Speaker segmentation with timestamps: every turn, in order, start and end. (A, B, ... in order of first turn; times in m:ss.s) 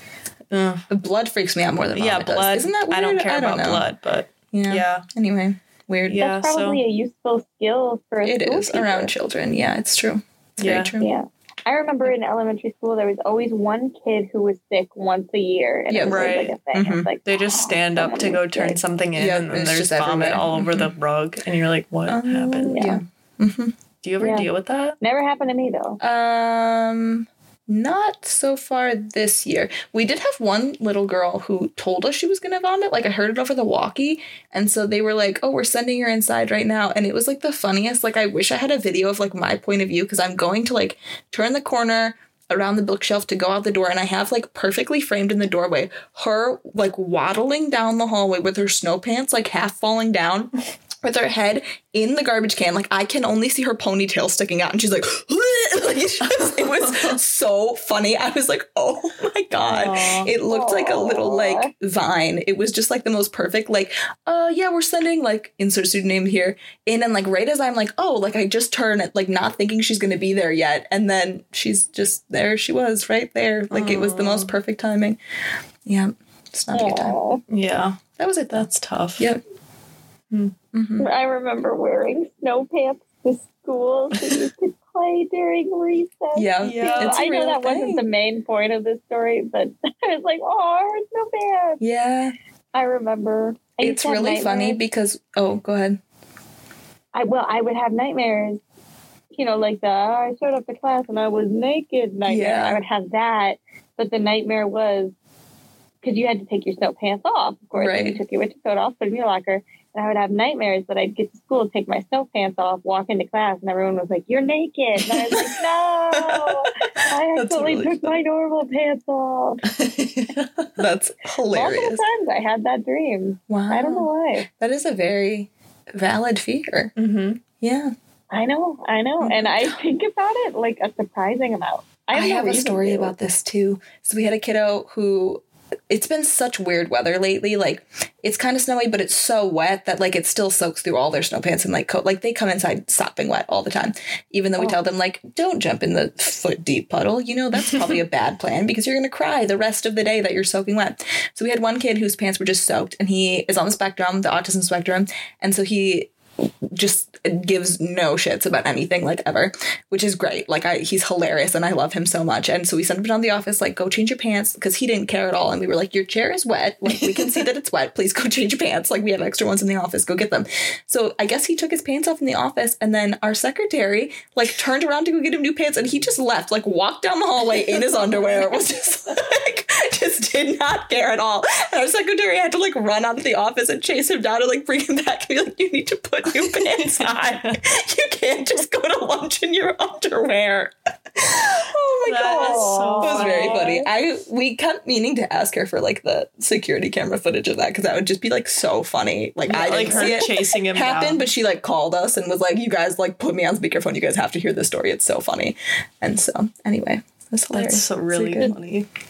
0:00.5-0:00.8 A
0:00.9-0:03.8 B
0:01.9-0:05.1 A
0:04.5-0:06.2 B
0:06.1-0:06.8 A
0:06.2-0:09.1 C
0:08.2-0:11.2 B
0:10.6-0:10.9 A
0:11.0-0:18.8 C
0:15.9-0:17.1 B
0:16.0-0:16.6 A
0:17.2-0:23.0 A
0:19.2-0:20.9 B
0:22.1-0:23.7 B
0:22.7-0:23.0 C
0:24.0-0:25.0 A
0:24.2-0:24.5 C
0:25.0-0:26.0 C
0:26.0-0:50.5 B
0:51.0-1:15.2 B
0:56.3-0:57.2 A
0:59.6-1:00.3 A
1:00.5-1:01.7 C
1:13.7-1:14.5 A
1:15.9-1:17.2 B
1:16.7-1:17.4 C
1:17.5-1:19.3 A
1:18.2-1:18.7 B
1:20.7-1:21.1 B
1:21.0-1:31.8 C
1:26.4-1:28.0 B
1:26.6-1:27.2 A
1:31.8-1:32.4 B
1:32.7-1:34.8 C
1:33.8-1:36.0 B
1:37.1-1:38.6 C
1:39.3-1:45.1 C
1:42.3-1:42.8 B
1:46.0-1:59.6 C
1:47.8-1:48.2 B
1:57.4-1:58.2 B
1:59.7-2:00.8 A
2:00.8-2:02.0 B
2:01.5-2:04.5 C
2:03.5-2:06.9 B
2:07.0-2:07.4 A
2:07.6-2:07.9 B
2:08.3-2:13.1 C
2:09.2-2:09.7 B
2:12.1-2:36.1 B
2:36.7-3:28.6 B
2:46.9-2:47.4 A
3:06.5-3:07.5 A
3:12.0-3:13.7 A
3:12.2-3:13.9 C
3:19.5-3:21.3 A
3:27.5-3:28.9 A